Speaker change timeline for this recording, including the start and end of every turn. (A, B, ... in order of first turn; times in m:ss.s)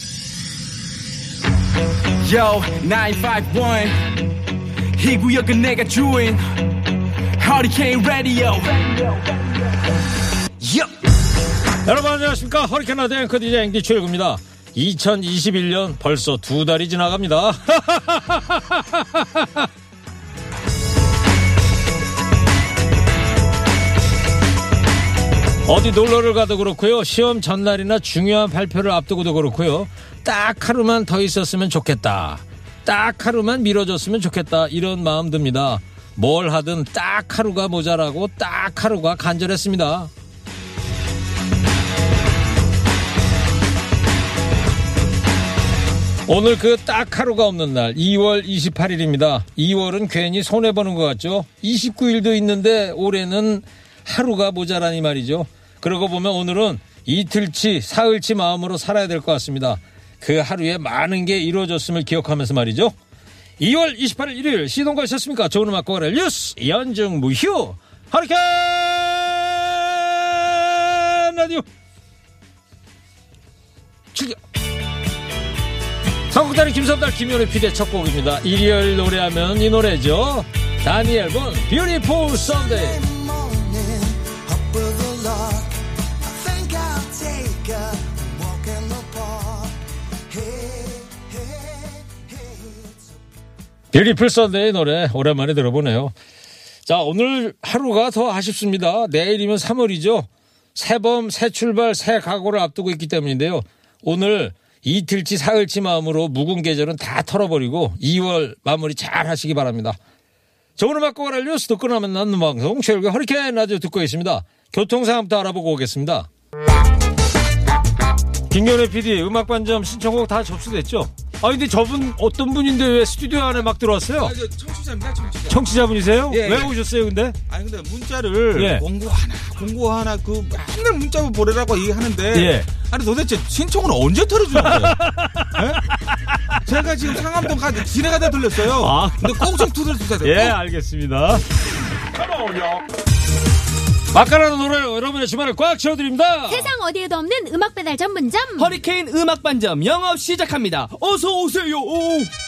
0:02.2-0:04.0 A
0:04.9-0:06.7 A
0:07.4-0:09.2 A
0:10.6-0:10.9 A
0:11.8-0:19.7 B
0:25.7-0:40.1 B
0:46.3-1:02.9 B
1:03.6-1:11.6 B
1:16.3-1:23.0 B
1:22.8-1:25.7 C
1:26.3-1:29.7 C
1:30.3-1:32.0 C
1:33.9-1:36.1 B
1:36.9-1:50.0 B
1:50.8-1:56.3 B
1:58.5-2:04.4 B
2:04.2-2:05.7 C
2:05.5-2:07.4 B
2:06.3-2:06.7 C
2:07.5-2:15.0 C
2:08.5-2:08.9 B
2:12.3-2:12.7 B
2:14.5-2:17.6 B
2:15.6-2:15.8 C
2:16.7-2:20.6 C
2:18.5-2:21.4 B
2:24.1-2:26.7 B
2:26.5-2:28.8 D
2:28.6-2:32.3 E